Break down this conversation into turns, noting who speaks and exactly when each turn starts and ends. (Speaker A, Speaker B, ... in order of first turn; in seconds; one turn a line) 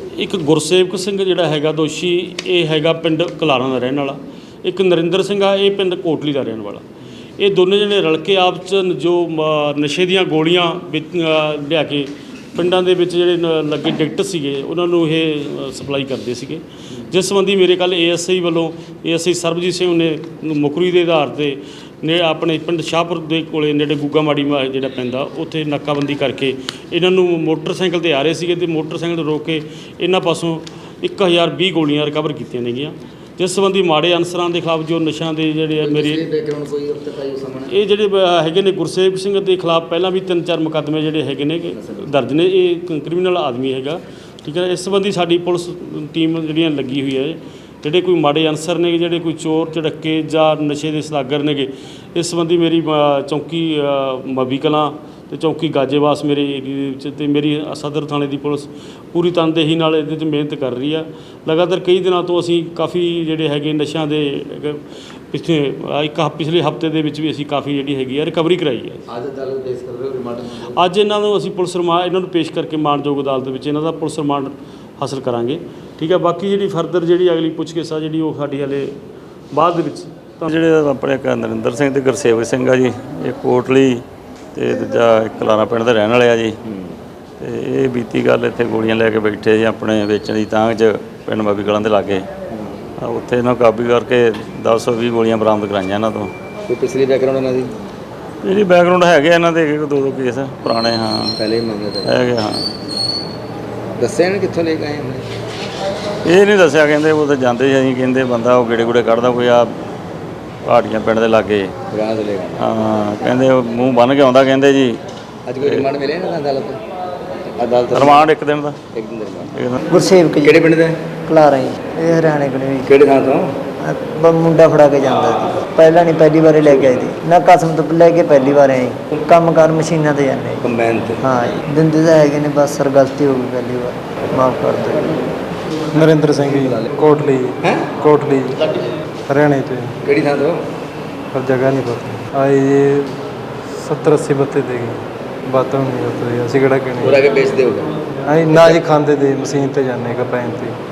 Speaker A: 0.1-6.8
Speaker A: 7.4-36.3
Speaker B: 35.8-37.7
Speaker A: 37.6-69.0
Speaker B: 69.1-70.8
Speaker A: 70.5-79.0
Speaker A: 79.5-80.5
Speaker C: 80.5-84.0
Speaker C: 84.5-86.6
Speaker C: 87.4-92.3
Speaker B: 92.5-92.8
Speaker C: 93.0-96.3
Speaker B: 96.7-97.7
Speaker C: 98.4-101.3
Speaker B: 101.4-102.2
Speaker C: 102.1-102.6
Speaker B: 104.0-105.2
Speaker C: 106.2-109.7
Speaker C: 110.6-111.7
Speaker B: 111.9-112.6
Speaker C: 112.6-115.0
Speaker B: 115.5-116.8
Speaker B: 117.5-118.3
Speaker C: 117.9-118.8
Speaker B: 118.9-119.5
Speaker D: 119.9-120.7
Speaker B: 120.4-121.0
Speaker D: 121.2-122.9
Speaker B: 122.8-123.5
Speaker D: 123.9-130.6
Speaker B: 130.6-131.2
Speaker D: 131.2-135.1
Speaker E: 135.9-138.6
Speaker B: 137.6-137.9
Speaker E: 139.3-140.0
Speaker B: 140.0-140.6
Speaker E: 141.3-143.2
Speaker E: 143.8-147.2
Speaker B: 147.0-147.9
Speaker E: 148.2-150.8
Speaker B: 148.5-148.8